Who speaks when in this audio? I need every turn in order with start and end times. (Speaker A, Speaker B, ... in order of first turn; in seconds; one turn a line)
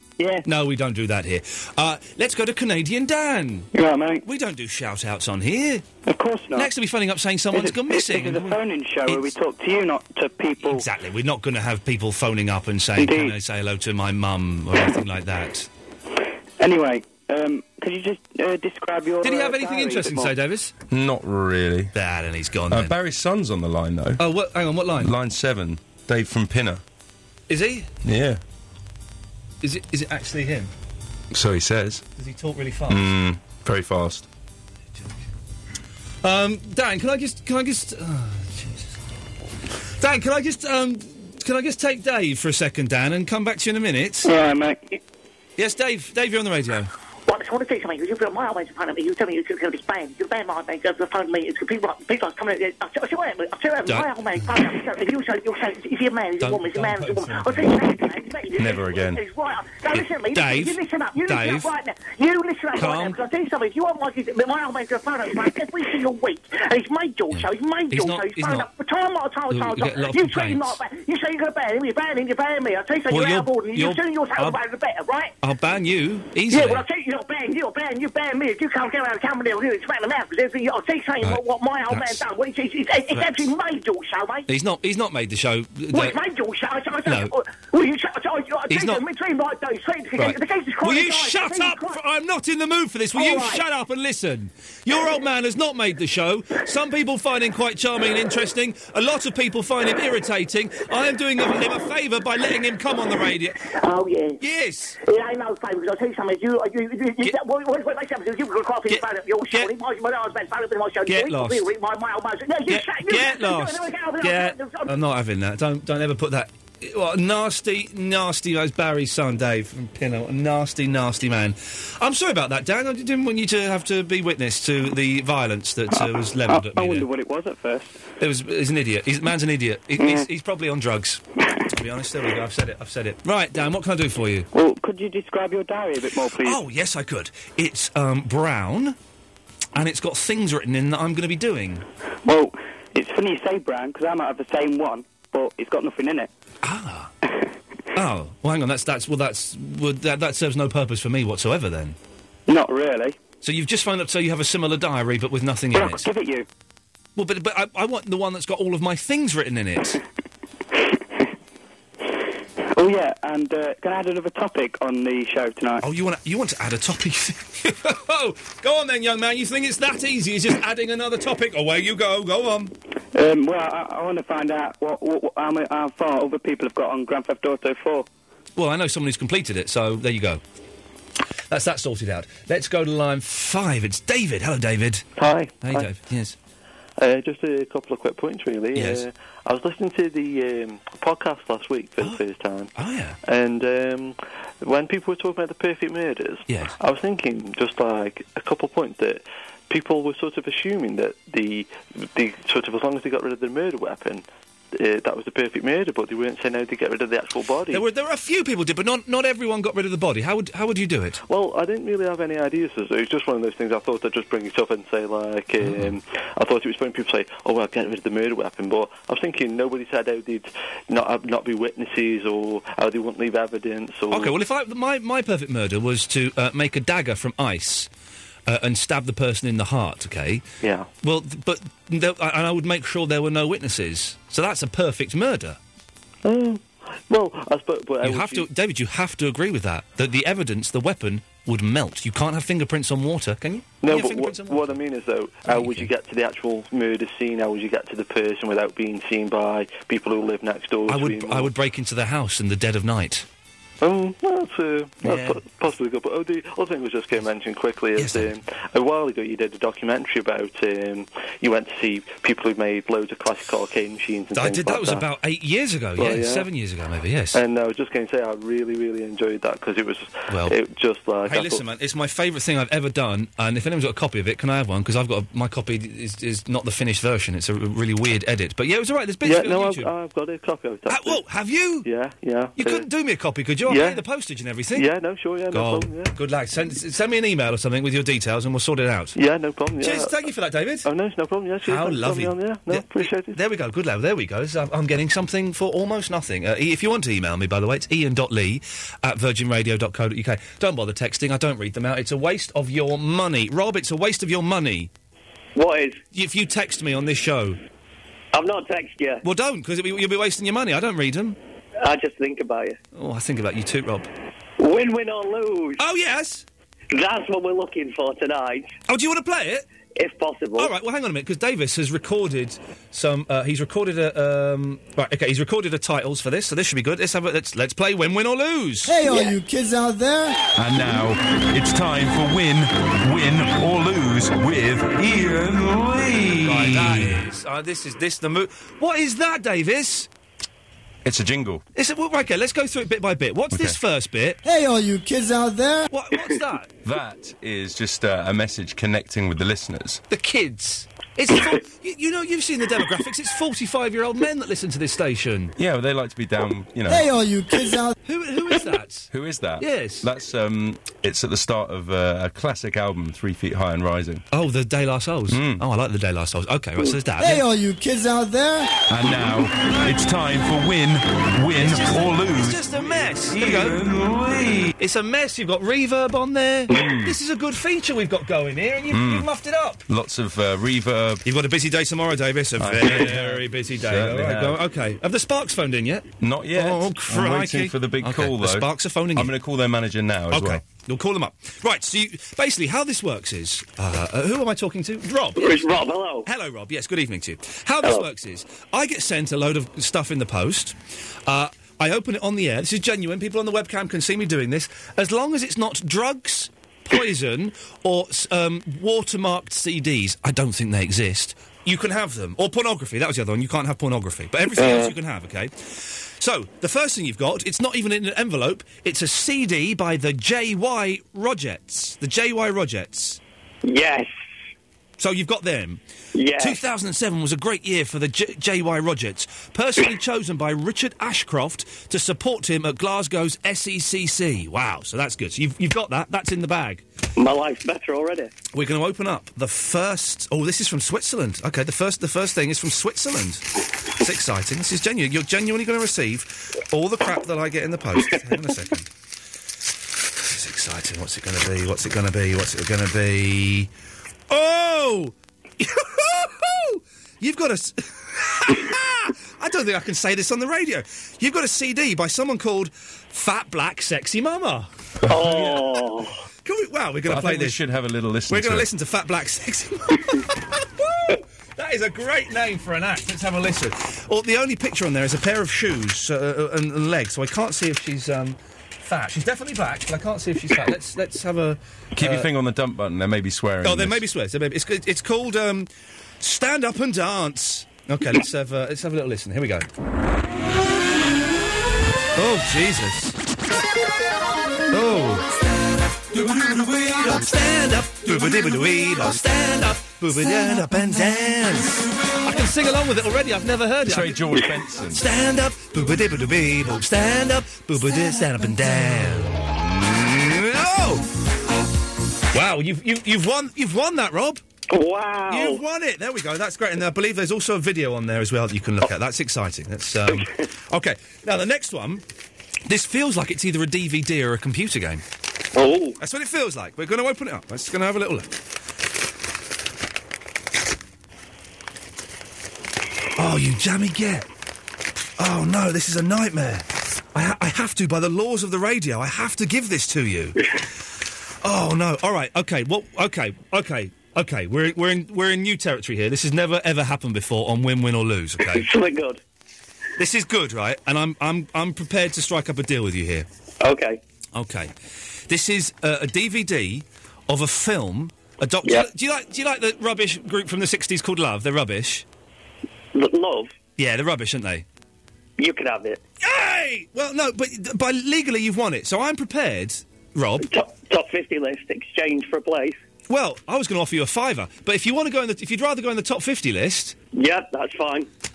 Speaker A: 0.2-0.5
Speaker B: 0.4-3.7
Speaker A: 3.7-4.2
Speaker B: 4.2-5.8
Speaker A: 6.1-6.7
Speaker B: 6.5-9.3
Speaker A: 7.5-10.8
Speaker B: 10.6-15.7
Speaker A: 13.0-13.4
Speaker A: 16.6-20.3
Speaker B: 19.2-20.7
Speaker C: 20.9-21.9
Speaker B: 21.9-22.9
Speaker C: 22.7-24.2
Speaker B: 24.2-25.1
Speaker C: 25.0-26.8
Speaker B: 27.5-27.9
Speaker C: 28.0-28.4
Speaker B: 29.6-30.7
Speaker C: 31.3-32.0
Speaker B: 32.2-33.1
Speaker C: 32.9-34.3
Speaker B: 36.2-39.0
Speaker B: 40.0-44.3
Speaker A: 44.2-45.0
Speaker B: 45.6-46.9
Speaker D: 47.3-75.3
Speaker B: 53.9-54.1
Speaker B: 56.4-57.9
Speaker C: 58.6-59.2
Speaker B: 59.9-61.7
Speaker B: 62.8-63.2
Speaker B: 67.3-68.7
Speaker B: 69.5-70.8
Speaker B: 73.1-74.6
Speaker B: 75.4-76.9
Speaker D: 76.5-84.5
Speaker B: 81.2-82.2
Speaker B: 83.1-83.5
Speaker B: 84.5-86.2
Speaker D: 85.9-92.0
Speaker B: 87.0-87.3
Speaker B: 88.7-89.0
Speaker B: 90.2-103.6
Speaker D: 93.1-93.6
Speaker D: 103.8-104.4
Speaker B: 104.4-105.0
Speaker D: 105.0-114.9
Speaker B: 108.9-109.7
Speaker B: 111.1-111.7
Speaker B: 112.7-127.1
Speaker A: 125.9-128.0
Speaker B: 128.2-134.5
Speaker A: 130.0-130.3
Speaker A: 134.5-136.6
Speaker B: 136.4-138.9
Speaker B: 139.8-141.8
Speaker A: 142.2-146.3
Speaker B: 146.6-147.1
Speaker B: 147.9-152.0
Speaker A: 152.5-153.2
Speaker B: 153.4-156.1
Speaker A: 155.7-156.4
Speaker B: 157.2-160.0
Speaker A: 162.8-165.8
Speaker B: 165.8-172.7
Speaker A: 173.1-178.1
Speaker B: 178.6-180.4
Speaker B: 181.5-185.1
Speaker E: 185.2-185.9
Speaker B: 185.6-186.4
Speaker E: 187.0-192.7
Speaker B: 188.8-189.0
Speaker B: 192.8-193.2
Speaker E: 193.2-207.8
Speaker B: 207.7-211.2
Speaker E: 211.2-224.3
Speaker B: 215.6-215.9
Speaker B: 224.1-227.9
Speaker B: 228.5-230.4
Speaker E: 230.6-230.9
Speaker B: 231.0-235.6
Speaker E: 236.2-238.5
Speaker B: 238.0-244.8
Speaker E: 243.8-251.5
Speaker B: 245.5-245.9
Speaker B: 250.9-253.3
Speaker E: 253.8-265.1
Speaker B: 255.0-255.4
Speaker B: 258.0-258.3
Speaker B: 264.3-267.4
Speaker E: 265.9-266.5
Speaker E: 267.3-271.6
Speaker B: 270.3-270.6
Speaker B: 271.2-279.9
Speaker E: 279.2-281.2
Speaker B: 280.9-281.9
Speaker E: 281.8-282.9
Speaker B: 282.6-284.9
Speaker E: 283.6-284.0
Speaker E: 284.7-286.1
Speaker B: 285.5-289.1
Speaker E: 289.1-290.2
Speaker B: 289.8-290.9
Speaker E: 290.8-293.4
Speaker B: 291.6-304.9
Speaker F: 305.6-306.0
Speaker B: 306.1-307.6
Speaker F: 308.3-309.2
Speaker B: 309.2-311.4
Speaker F: 311.8-312.8
Speaker B: 312.9-314.1
Speaker F: 314.6-315.8
Speaker B: 315.8-316.4
Speaker F: 316.9-318.7
Speaker B: 318.9-319.6
Speaker F: 319.9-320.7
Speaker B: 320.6-329.1
Speaker G: 328.9-330.3
Speaker C: 330.6-337.1
Speaker B: 336.4-340.1
Speaker C: 341.1-341.6
Speaker B: 341.8-344.4
Speaker C: 343.5-343.8
Speaker G: 344.4-345.8
Speaker B: 345.9-346.7
Speaker C: 346.8-350.0
Speaker B: 350.1-355.6
Speaker C: 355.6-357.2
Speaker G: 356.9-357.9
Speaker B: 358.1-360.1
Speaker C: 359.1-364.2
Speaker B: 364.3-367.5
Speaker C: 365.3-365.6
Speaker G: 367.2-368.7
Speaker C: 368.9-372.6
Speaker B: 371.6-373.9
Speaker C: 373.3-374.7
Speaker B: 374.8-379.8
Speaker C: 376.7-377.1
Speaker C: 378.9-379.3
Speaker C: 379.9-381.2
Speaker B: 381.2-389.3
Speaker C: 382.6-384.6
Speaker C: 386.2-390.6
Speaker B: 390.3-395.7
Speaker F: 395.4-396.3
Speaker B: 396.2-400.8
Speaker F: 397.8-398.1
Speaker B: 401.3-423.2
Speaker F: 423.6-424.1
Speaker B: 425.0-425.8
Speaker F: 426.1-426.6
Speaker B: 426.4-436.8
Speaker F: 437.1-438.3
Speaker B: 438.5-443.5
Speaker B: 444.0-448.9
Speaker B: 450.2-453.7
Speaker B: 454.3-465.9
Speaker F: 465.1-466.1
Speaker B: 466.4-467.6
Speaker C: 467.1-468.7
Speaker B: 468.3-482.3
Speaker C: 482.0-484.0
Speaker B: 483.6-485.7
Speaker B: 486.2-489.7
Speaker B: 492.1-493.2
Speaker B: 494.7-495.3
Speaker B: 496.1-511.0
Speaker C: 503.8-505.0
Speaker B: 512.3-514.4
Speaker F: 514.7-515.6
Speaker B: 515.3-522.0
Speaker B: 522.7-525.0
Speaker F: 525.5-525.9
Speaker B: 526.0-528.3
Speaker B: 533.1-534.3
Speaker B: 535.2-540.4
Speaker B: 541.4-548.7
Speaker F: 548.4-549.2
Speaker B: 550.0-553.3
Speaker F: 553.6-554.0
Speaker B: 554.4-554.7
Speaker B: 555.3-562.0
Speaker F: 562.9-563.6
Speaker B: 563.8-564.6
Speaker F: 565.4-566.0
Speaker B: 566.2-570.5
Speaker F: 570.4-572.8
Speaker B: 573.1-577.0
Speaker F: 577.1-578.1